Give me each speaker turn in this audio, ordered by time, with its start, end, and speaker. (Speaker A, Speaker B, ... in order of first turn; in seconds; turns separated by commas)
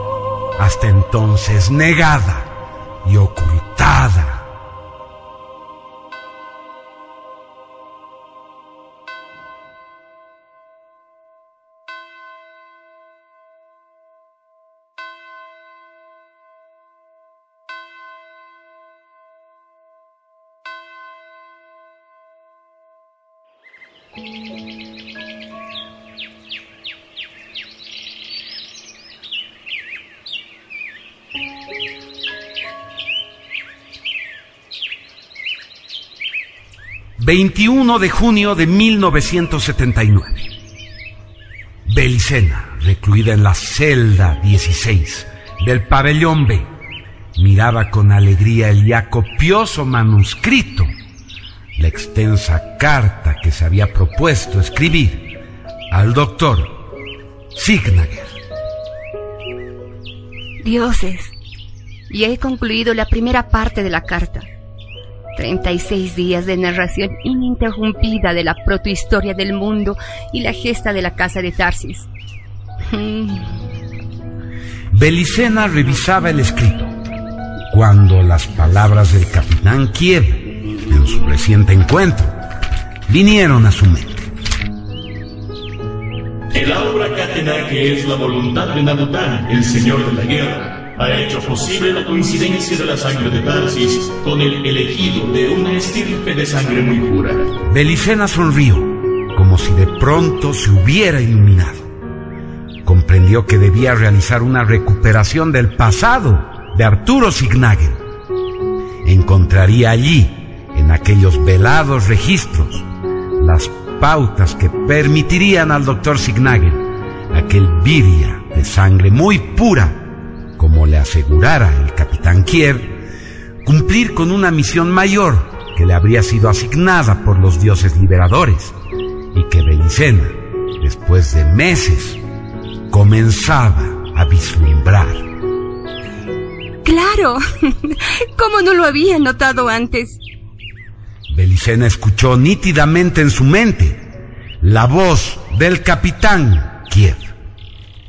Speaker A: 0.6-2.5, Speaker A: 3.0-4.5, Speaker A: 37.2-40.5, Speaker A: 41.9-46.7, Speaker A: 47.4-50.9, Speaker A: 51.8-55.3, Speaker A: 55.9-56.9, Speaker A: 57.5-58.4, Speaker B: 60.6-61.3, Speaker B: 62.1-64.5, Speaker B: 65.4-72.1, Speaker B: 72.9-73.6, Speaker A: 74.9-76.9, Speaker A: 77.7-82.3, Speaker A: 83.1-84.3, Speaker C: 86.5-97.5, Speaker A: 97.7-101.9, Speaker A: 102.8-108.0, Speaker A: 109.0-112.9, Speaker A: 113.4-123.0, Speaker A: 123.6-128.7, Speaker A: 129.3-132.2, Speaker A: 132.9-135.2, Speaker B: 136.8-140.2, Speaker A: 141.3-144.1, Speaker A: 144.6-147.3